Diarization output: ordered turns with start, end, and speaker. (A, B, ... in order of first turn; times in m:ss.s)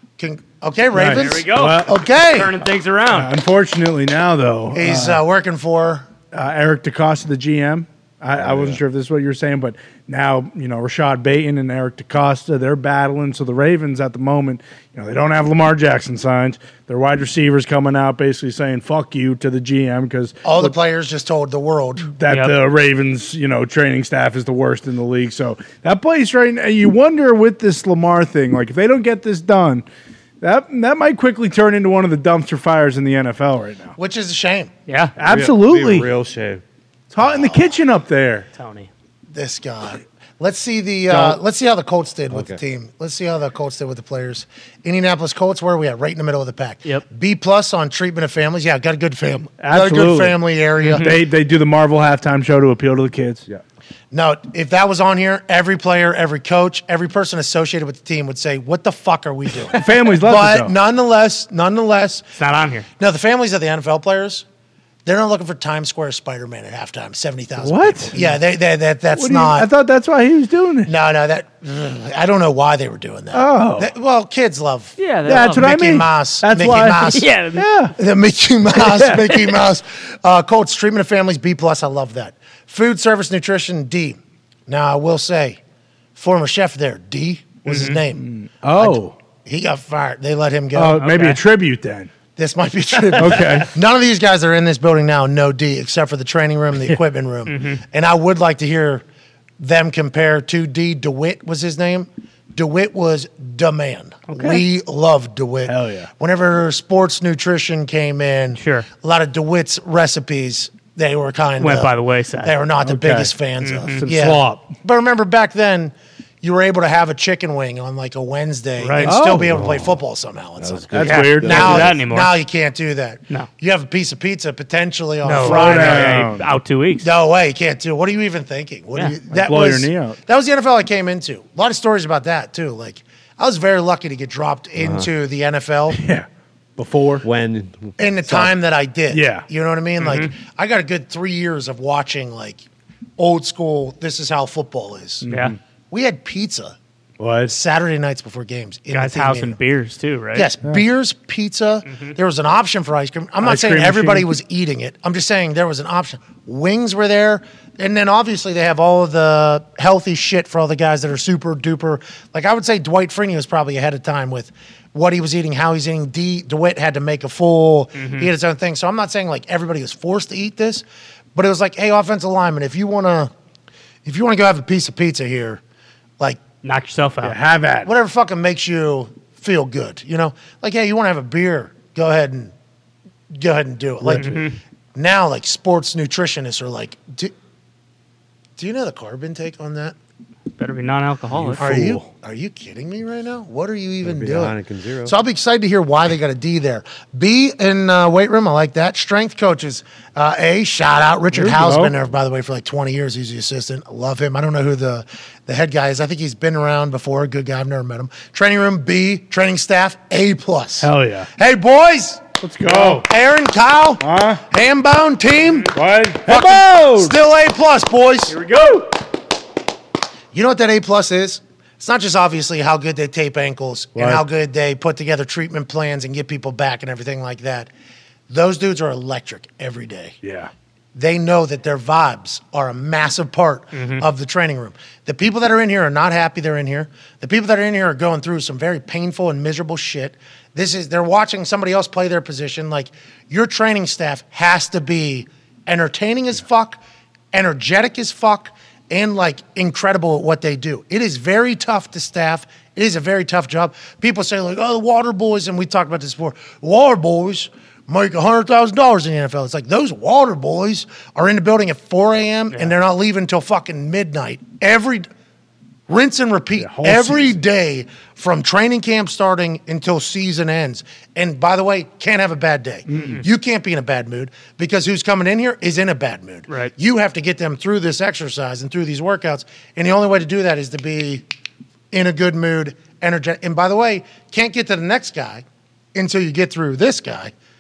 0:00.2-0:02.5 A
0:00.9-0:01.9 B
0:01.1-0:03.3 C
0:03.1-0:05.2 B
0:04.7-0:06.1 A
0:06.3-0:20.7 B
0:08.4-0:08.8 D
0:20.4-0:22.1 A
0:22.1-0:29.8 B
0:22.3-0:22.6 C
0:30.4-0:34.0 B
0:34.0-0:34.7 A
0:34.9-0:35.1 C
0:35.2-0:36.1 B
0:35.2-0:36.6 D
0:37.1-0:38.5 B
0:37.2-0:37.7 A
0:38.6-0:38.9 C
0:39.3-0:51.1 A
0:41.1-0:41.4 B
0:42.3-0:42.6 D
0:49.6-0:50.4 B
0:50.8-0:51.2 C
0:51.0-0:53.4 B
0:54.1-1:02.3 A
0:59.7-1:00.8 B
1:02.4-1:02.9 C
1:03.0-1:04.4 A
1:05.0-1:09.7 A
1:07.6-1:08.3 B
1:09.2-1:10.9 B
1:10.9-1:17.2 A
1:13.3-1:13.9 B
1:15.0-1:15.7 C
1:15.3-1:17.9 B
1:17.1-1:17.7 C
1:18.0-1:25.6 A
1:18.8-1:19.4 B
1:26.2-1:31.0 A
1:27.7-1:28.0 C
1:28.2-1:29.1 B
1:30.7-1:32.1 B
1:31.0-1:31.4 C
1:32.4-1:39.0 A
1:33.2-1:33.7 B
1:37.5-1:37.8 C
1:39.6-2:06.3 A
1:44.3-1:44.6 C
1:45.7-1:46.1 B
1:48.6-1:48.9 C
1:51.6-1:52.5 C
1:52.8-1:53.3 B
1:53.6-1:54.1 C
1:54.0-1:54.7 B
1:58.8-1:59.1 C
1:59.0-1:59.5 B
1:59.1-2:00.0 D
2:00.6-2:02.0 D
2:00.9-2:01.8 B
2:01.0-2:02.3 C
2:05.2-2:06.5 B
2:05.3-2:07.1 C
2:07.0-2:16.0 A
2:09.3-2:10.2 B
2:14.8-2:15.1 D
2:16.0-2:17.3 B
2:17.2-2:18.5 D
2:18.0-2:22.6 A
2:19.1-2:19.5 B
2:20.0-2:20.3 C
2:23.2-2:25.3 A
2:25.2-2:25.6 B
2:25.3-2:25.6 C
2:25.9-2:26.8 A
2:27.2-2:27.5 B
2:27.5-2:29.6 A
2:28.9-2:30.5 C
2:30.3-2:50.8 A
2:33.4-2:34.3 B
2:48.0-2:48.3 C
2:51.4-2:53.3 A
2:54.0-2:55.6 A
2:56.6-2:57.4 C
2:57.2-2:57.9 B
2:57.8-3:02.5 A
3:03.3-3:04.4 A
3:04.2-3:04.6 C
3:05.0-3:07.3 A
3:08.6-3:10.0 A
3:10.6-3:11.6 C
3:11.3-3:11.6 D
3:11.6-3:12.1 B
3:11.6-3:38.4 A
3:14.0-3:15.1 D
3:21.3-3:21.9 B
3:30.8-3:31.3 B
3:32.4-3:33.1 B
3:34.0-3:34.4 B
3:35.7-3:37.1 B
3:38.3-3:38.9 B
3:40.3-3:47.7 A
3:44.0-3:44.2 B
3:48.3-3:50.2 A
3:50.2-3:50.5 B
3:51.0-4:06.8 A
3:53.7-3:54.0 C
4:07.3-4:25.1 A
4:25.9-4:41.2 A
4:26.6-4:27.4 B
4:32.9-4:33.2 B
4:33.0-4:33.2 C
4:41.9-4:45.4 A
4:46.0-4:47.3 A